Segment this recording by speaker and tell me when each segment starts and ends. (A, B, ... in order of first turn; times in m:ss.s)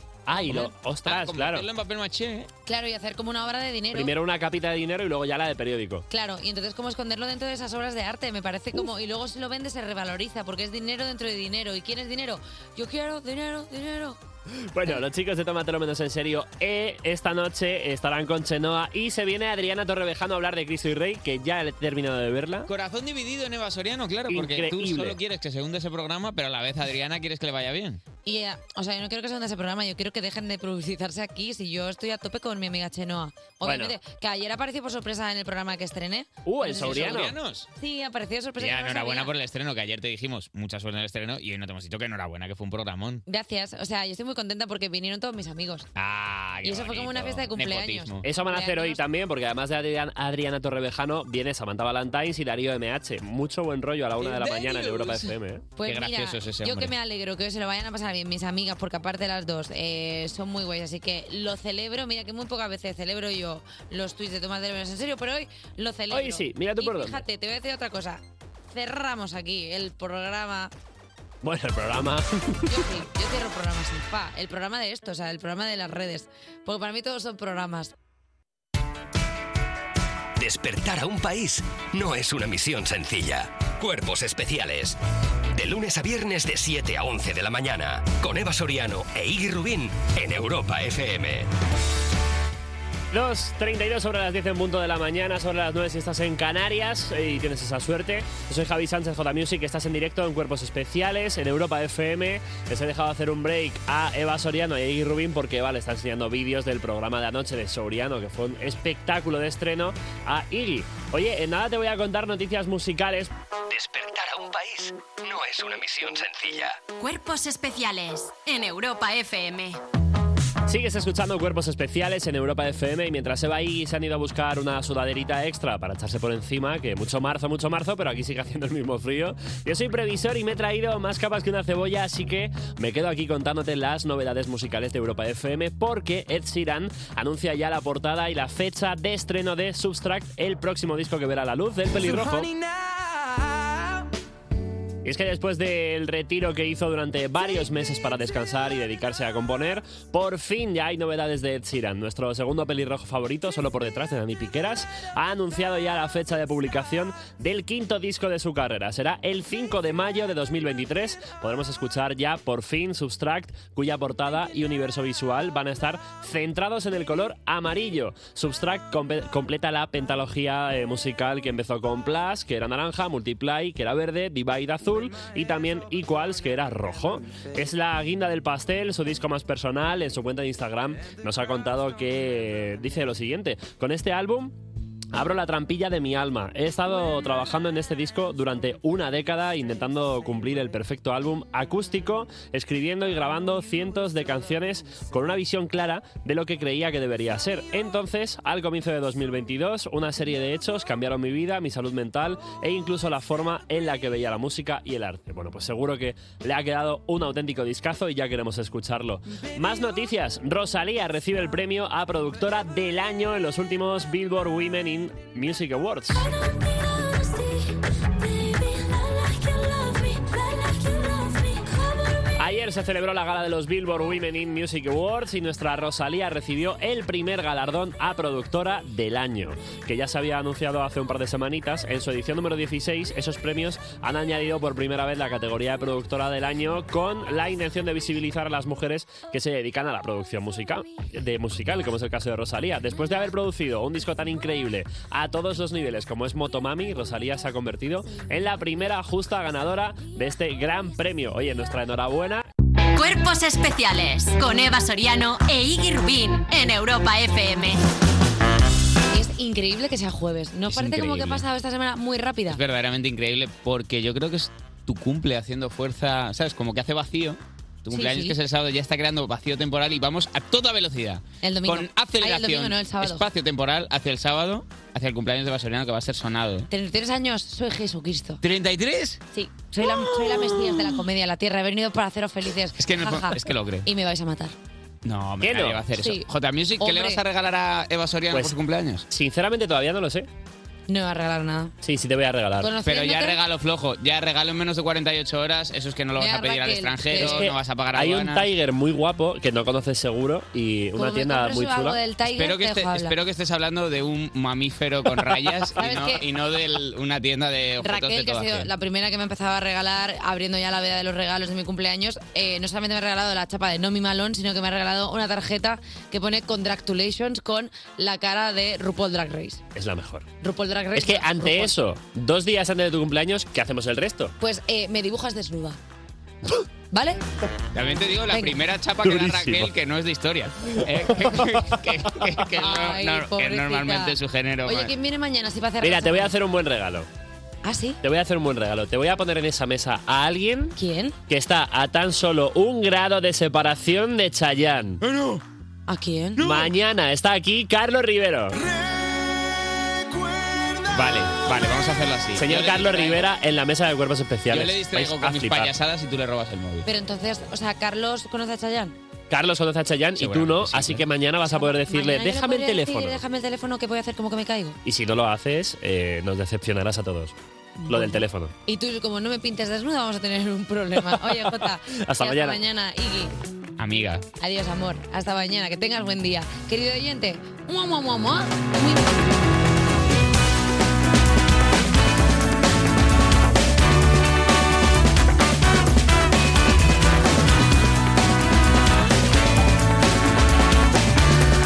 0:00.3-0:01.7 A
0:00.4-0:02.5 B
0:02.6-0:04.2 C
0:03.9-0:06.0 A
0:06.1-0:14.2 C
0:14.6-0:22.7 A
0:22.7-0:28.0 B
0:24.3-0:25.2 A
0:28.3-0:39.3 C
0:33.6-0:34.0 A
0:36.4-0:37.4 A
0:36.6-0:37.7 B
0:38.6-0:43.2 B
0:43.3-0:45.9 C
0:46.0-0:48.2 B
0:46.6-0:49.0 C
0:48.2-0:55.6 A
0:54.2-0:55.3 B
0:55.8-1:10.7 C
0:55.8-0:56.9 B
1:06.1-1:07.2 A
1:11.4-1:12.7 A
1:12.7-1:17.9 C
1:20.4-1:25.0 D
1:25.5-1:31.5 D
1:33.1-1:53.3 A
1:53.7-1:56.8 D
1:57.0-1:59.8 E
2:00.7-2:22.5 A
2:25.0-3:04.5 A
3:05.1-3:36.3 A
3:42.4-4:12.5 A
4:13.0-4:17.8 E
4:19.1-4:22.6 C
4:20.7-4:21.4 B
4:22.5-4:36.7 B
4:27.9-4:28.4 C
4:31.4-4:33.2 C
4:36.7-4:38.4 C
4:38.4-4:39.2 B
4:39.3-4:44.5 C
4:42.8-4:43.9 B
4:45.0-4:49.0 B
4:45.4-4:45.8 A
4:46.0-4:46.3 C
4:46.8-4:47.2 C
4:48.3-4:48.6 A
4:49.1-4:50.3 A
4:50.9-4:51.7 C
4:51.8-4:52.7 A
4:52.6-4:53.4 C
4:52.8-4:58.4 B
4:56.2-4:57.5 C
4:57.1-5:02.0 A
5:01.0-5:03.2 C
5:02.3-5:08.7 B
5:05.8-5:06.2 C
5:07.8-5:19.6 C
5:19.7-5:20.3 A
5:20.4-5:21.7 C
5:21.0-5:24.3 A
5:24.4-5:25.8 C
5:26.9-5:27.2 C
5:27.7-5:34.9 B
5:28.3-5:28.6 C
5:29.0-5:29.7 A
5:31.2-5:31.6 A
5:32.6-5:36.4 C
5:35.8-5:37.1 A
5:37.6-5:38.0 C
5:38.0-5:40.7 A
5:40.8-5:41.2 C
5:41.3-5:45.0 A
5:45.0-5:45.4 B
5:45.9-5:46.4 C
5:46.4-5:46.7 B
5:46.4-5:48.6 A
5:50.9-5:53.2 B
5:52.4-5:55.7 A
5:54.5-5:56.9 B
5:56.8-5:59.0 C
5:59.3-6:03.2 A
6:00.2-6:01.1 B
6:01.5-6:04.8 C
6:04.8-6:07.3 A
6:07.9-6:13.3 C
6:07.9-6:08.5 A
6:11.1-6:12.6 A
6:13.8-6:14.3 B
6:14.4-6:19.1 C